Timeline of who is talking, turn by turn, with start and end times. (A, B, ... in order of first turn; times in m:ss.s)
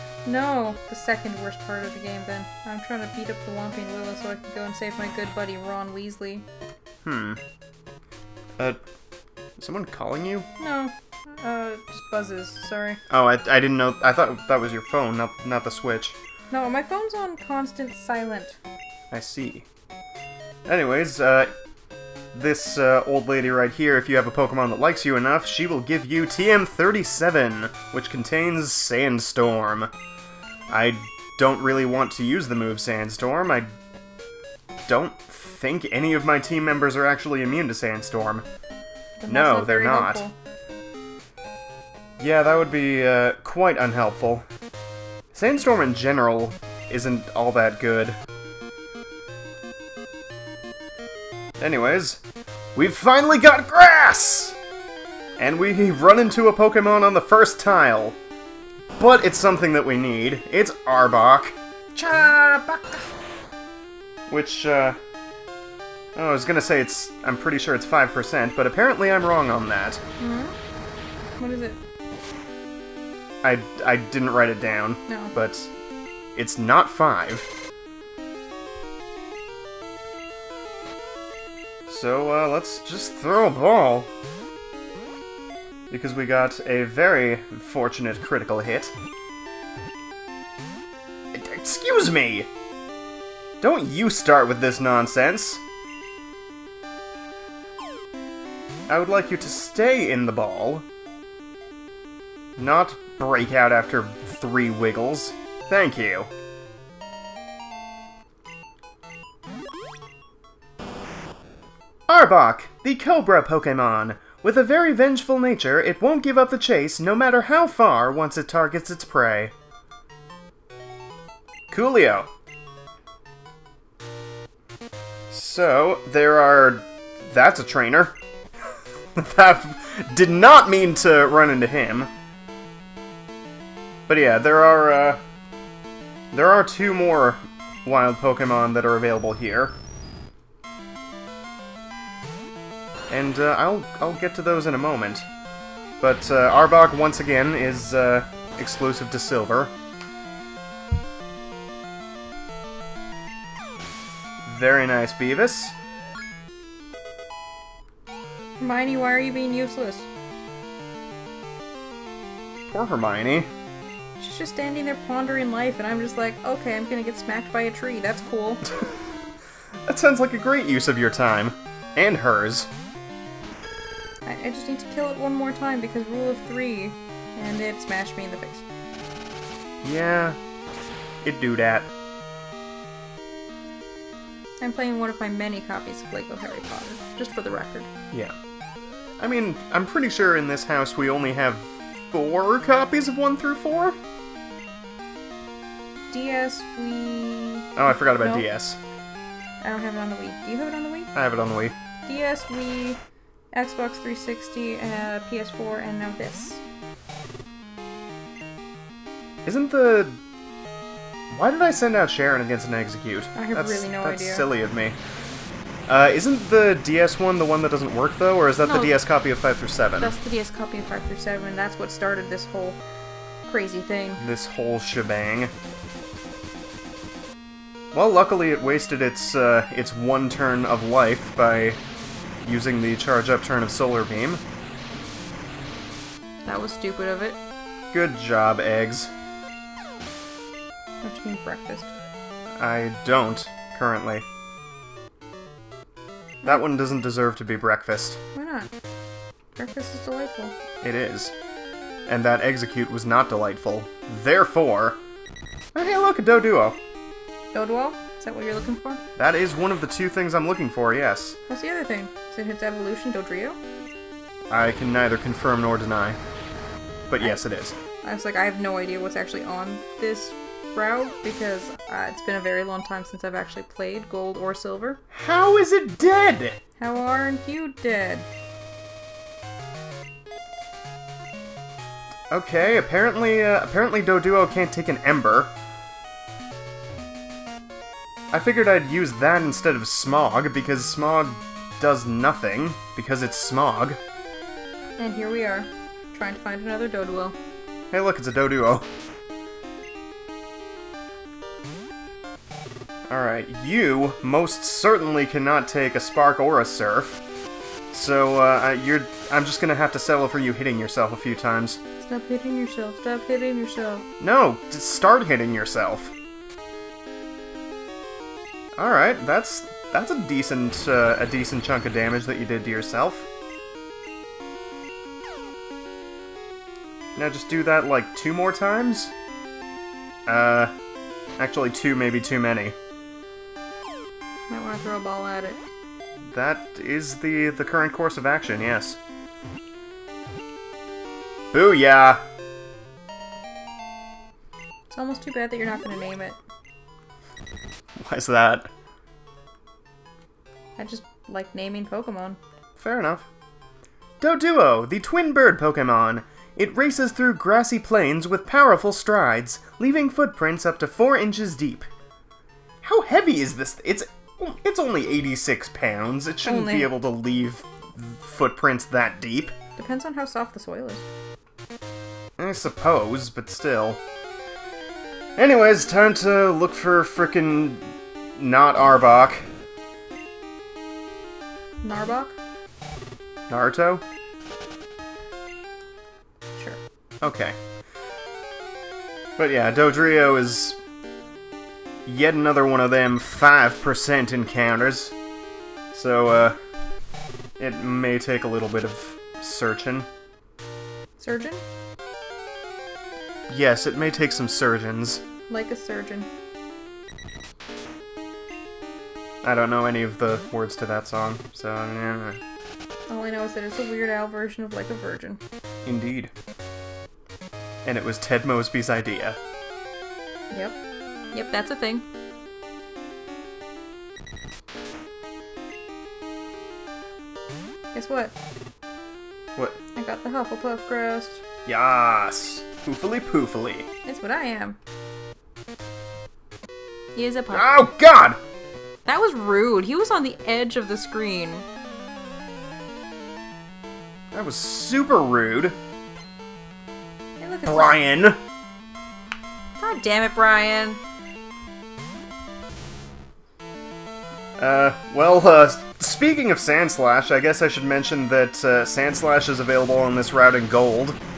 0:00.2-0:06.4 A
0:07.0-0:07.4 B
0:09.6-0:10.5 B
0:10.6-0:13.0 A
0:13.1-0:16.2 B
0:16.5-0:18.6 A
0:19.1-0:19.6 B
0:20.6-0:21.5 B
0:22.3-0:29.9 B
0:30.7-0:33.7 B
0:34.9-0:38.4 B
0:39.2-0:40.3 A
0:39.3-0:40.2 B
0:42.2-0:44.4 B
0:45.3-0:48.2 B
0:51.6-0:52.2 B
0:52.8-0:54.6 B
0:55.4-0:58.2 B
0:59.0-1:01.6 B
1:02.0-1:03.0 A
1:04.3-1:05.0 B
1:06.2-1:10.0 B
1:10.2-1:10.5 A
1:11.4-1:11.8 A
1:13.4-1:15.7 B
1:15.1-1:15.3 A
1:16.3-1:17.5 B
1:21.9-1:24.1 B
1:25.9-1:28.9 B
1:31.3-1:32.5 B
1:33.6-1:35.6 B
1:38.9-1:40.8 B
1:42.6-1:46.3 B
1:52.1-1:59.5 B
2:01.7-2:02.3 B
2:05.3-2:08.2 B
2:09.2-2:12.1 B
2:14.1-2:15.2 B
2:16.3-2:19.8 B
2:23.1-2:25.3 B
2:26.0-2:29.7 B
2:34.4-2:35.7 B
2:38.6-2:40.1 A
2:42.7-2:43.5 B
2:44.2-2:48.6 A
2:49.8-2:52.7 B
2:54.2-2:58.6 A
2:59.8-3:00.4 B
3:01.2-3:01.9 B
3:04.6-3:07.9 A
3:09.2-3:14.0 B
3:16.1-3:18.5 A
3:17.8-3:18.8 B
3:19.6-3:21.1 A
3:21.1-3:21.7 B
3:22.0-3:23.0 A
3:23.5-3:26.6 A
3:29.4-3:30.2 B
3:31.3-3:35.0 B
3:33.3-3:34.4 A
3:35.9-3:40.1 B
3:38.6-3:39.0 A
3:40.0-3:42.8 A
3:43.5-3:44.2 A
3:44.2-3:45.5 B
3:47.9-3:51.8 B
3:52.4-3:54.4 B
3:56.4-3:57.4 A
3:57.9-3:59.1 B
4:01.0-4:01.9 A
4:02.6-4:04.2 B
4:06.4-4:08.2 B
4:08.3-4:08.7 A
4:09.6-4:10.5 A
4:10.8-4:11.3 B
4:12.1-4:15.0 B
4:15.7-4:16.8 B
4:17.5-4:19.0 A
4:19.2-4:21.4 B
4:21.5-4:23.6 A
4:24.5-4:26.2 B
4:27.1-4:27.7 B
4:28.0-4:35.0 A
4:35.1-4:36.6 B
4:36.8-4:38.3 A
4:42.3-4:45.5 B
4:48.3-4:54.0 B
4:55.0-4:57.4 A
4:57.9-4:58.9 B
5:03.1-5:07.2 B
5:07.9-5:11.8 B
5:12.0-5:14.0 A
5:14.2-5:16.1 B
5:18.8-5:23.3 B
5:27.2-5:29.1 B
5:30.3-5:30.7 B
5:31.4-5:32.7 B
5:34.5-5:35.6 A
5:36.3-5:39.0 B
5:41.5-5:42.2 B
5:44.9-5:46.4 A
5:48.0-5:48.7 B
5:50.8-5:52.4 A
5:52.8-5:53.2 B
5:54.2-6:01.9 B
6:02.8-6:09.5 B
6:06.4-6:06.9 A
6:09.8-6:11.0 A
6:12.4-6:14.0 B
6:15.4-6:19.4 B
6:21.8-6:22.4 A
6:23.5-6:24.0 B
6:27.2-6:27.6 B
6:29.4-6:30.8 B
6:32.0-6:35.1 B
6:35.9-6:36.6 B
6:37.6-6:40.1 B
6:41.2-6:41.6 A
6:43.5-6:45.2 B
6:45.5-6:46.3 A
6:49.4-6:52.4 B
6:53.1-6:55.4 A
6:55.8-6:56.3 B
6:57.8-6:59.4 B
7:00.5-7:00.8 A
7:01.3-7:02.0 A
7:07.9-7:08.3 A
7:09.9-7:11.4 A
7:11.6-7:13.8 B
7:14.0-7:14.8 A
7:17.1-7:17.6 A
7:17.5-7:18.4 B
7:19.0-7:21.6 A
7:24.3-7:25.8 B
7:27.4-7:27.9 A
7:27.6-7:28.4 B
7:29.8-7:31.0 A
7:34.6-7:41.2 B